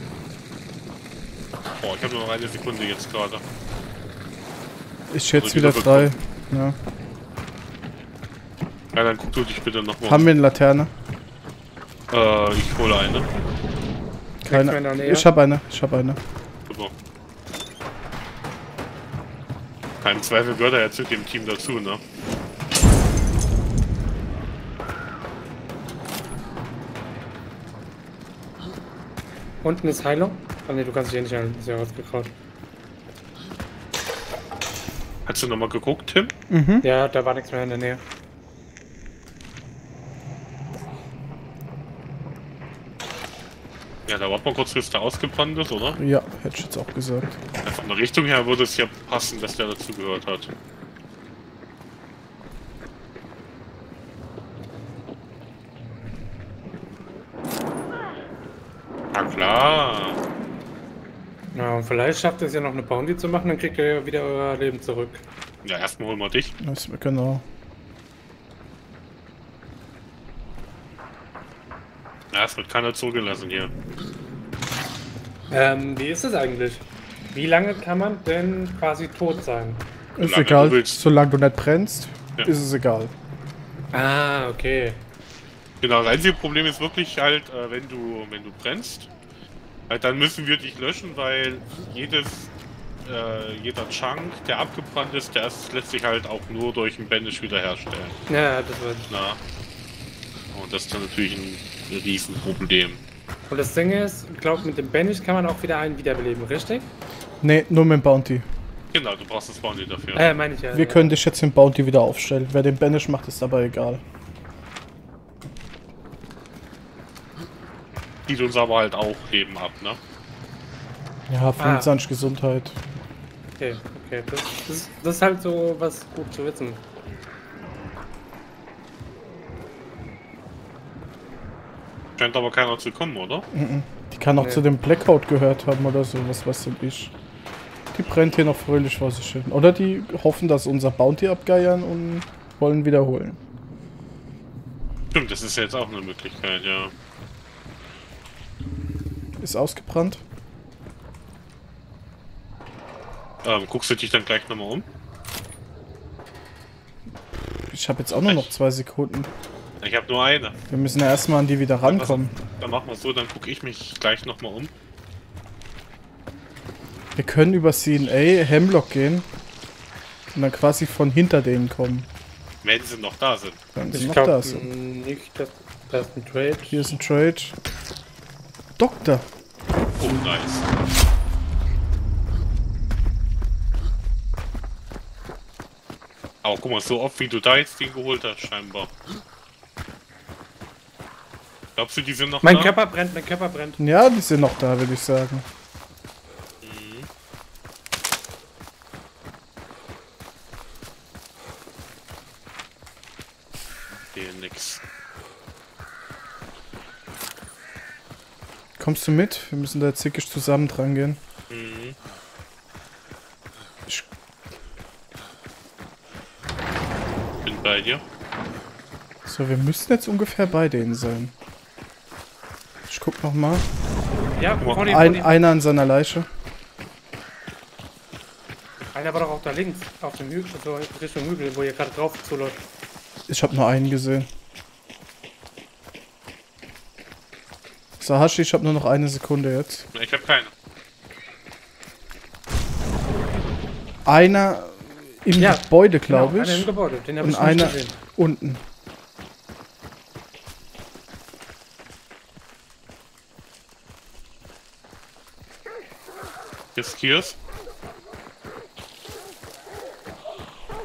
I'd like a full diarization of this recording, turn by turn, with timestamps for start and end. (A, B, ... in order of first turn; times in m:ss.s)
0:01.8-0:03.4 A
0:05.1-0:06.8 B
0:05.4-0:06.1 A
0:09.0-0:10.3 A
0:10.1-0:10.9 B
0:12.1-0:13.3 A
0:14.4-0:16.2 B
0:14.5-0:15.3 C
0:16.7-0:16.9 A
0:20.0-0:22.0 A
0:29.6-0:32.3 C
0:35.3-0:36.3 A
0:36.5-0:36.9 B
0:36.8-0:38.0 C
0:44.1-0:46.0 A
0:46.0-0:47.4 B
0:47.6-0:50.5 A
0:59.1-1:00.2 A
1:01.5-1:05.2 C
1:05.6-1:06.5 A
1:06.6-1:07.4 B
1:12.3-1:13.7 A
1:15.5-1:19.8 C
1:20.2-1:23.1 B
1:20.2-1:21.0 A
1:23.9-1:25.0 C
1:25.8-1:29.1 A
1:29.9-1:32.5 A
1:33.0-1:38.2 A
1:38.3-1:39.1 C
1:39.1-1:39.4 A
1:40.5-1:43.0 A
1:43.5-1:46.9 C
1:47.4-1:48.5 B
1:48.9-1:50.2 A
1:50.2-1:51.1 C
1:50.7-1:54.0 B
1:58.3-2:00.0 A
2:01.3-2:02.9 B
2:01.6-2:01.9 C
2:03.6-2:06.8 C
2:12.2-2:13.5 A
2:13.5-2:17.1 B
2:17.9-2:23.4 B
2:25.1-2:26.9 A
2:29.4-2:30.2 B
2:33.4-2:34.9 A
2:37.7-2:39.3 B
2:38.1-2:38.5 A
2:39.8-2:40.6 A
2:40.7-2:42.3 B
2:41.9-2:44.7 A
2:47.2-2:49.3 B
2:50.3-2:52.1 B
2:52.6-2:53.6 A
2:53.8-2:54.6 B
2:53.9-2:56.8 C
2:56.7-2:57.6 B
2:58.8-2:59.3 B
3:00.0-3:00.7 A
3:06.4-3:08.9 A
3:11.8-3:12.7 A
3:12.4-3:13.8 C
3:13.8-3:15.5 B
3:16.6-3:17.1 A
3:24.1-3:24.8 A
3:28.8-3:31.2 B
3:31.5-3:32.0 A
3:37.4-3:38.0 A
3:39.3-3:41.3 B
3:42.9-3:43.6 B
3:44.4-3:45.3 C
3:44.7-3:46.3 B
3:48.9-3:52.6 C
3:53.3-3:54.3 B
3:58.0-3:59.9 B
3:59.9-4:00.5 A
4:04.0-4:08.6 B
4:05.4-4:08.0 C
4:16.8-4:17.4 A